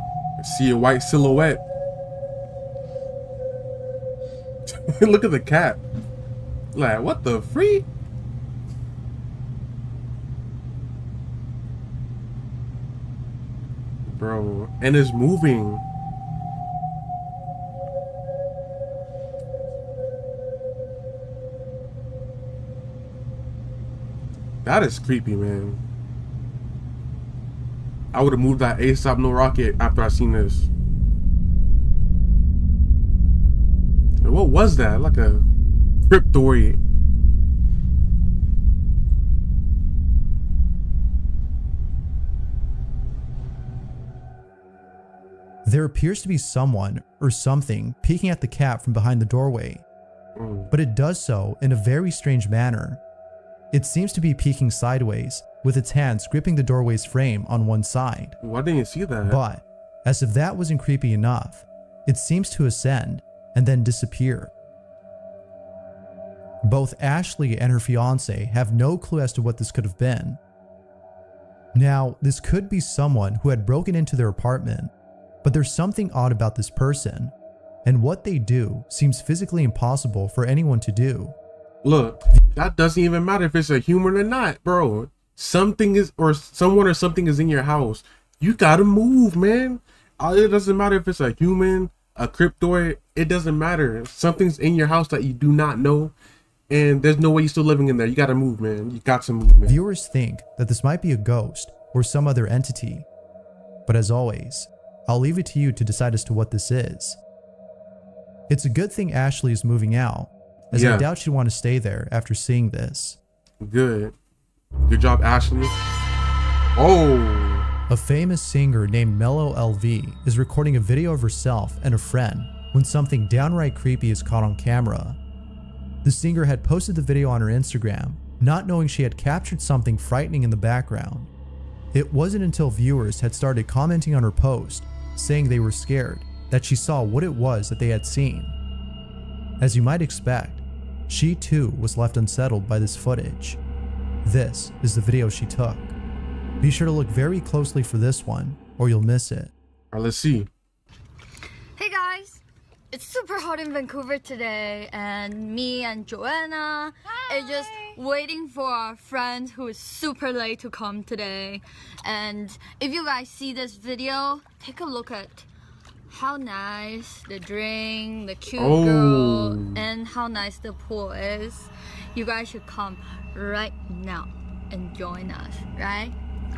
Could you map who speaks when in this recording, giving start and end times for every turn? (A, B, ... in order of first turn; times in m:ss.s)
0:00.4-0:01.6 A
0:04.7-0:05.8 A
0:06.7-0:07.9 A
0:14.1-0:15.8 A
0:24.6-0:25.8 A
0:28.1-0:30.7 A
0:34.2-0:35.4 A
0:36.1-0:36.8 A
0:45.6-0:49.8 B
0:50.4-0:50.7 A
0:50.7-0:53.0 B
0:53.7-0:58.4 B
0:58.4-0:59.4 A
0:59.2-1:04.5 B
1:06.6-1:10.4 B
1:11.8-1:14.9 B
1:15.4-1:17.3 B
1:17.8-1:21.4 B
1:21.8-1:36.1 A
1:36.7-1:39.8 A
1:39.7-1:43.1 B
1:43.9-1:47.2 B
1:48.5-1:53.2 B
1:50.7-1:51.1 A
1:53.6-1:54.2 A
1:54.8-1:55.8 A
1:56.8-1:57.7 A
1:57.9-2:05.2 B
2:06.0-2:11.3 B
2:11.9-2:18.6 B
2:19.6-2:23.6 B
2:24.2-2:26.0 B
2:26.6-2:29.5 B
2:29.9-2:30.5 A
2:31.8-2:45.5 C
2:46.1-2:56.2 C
2:48.6-2:49.8 A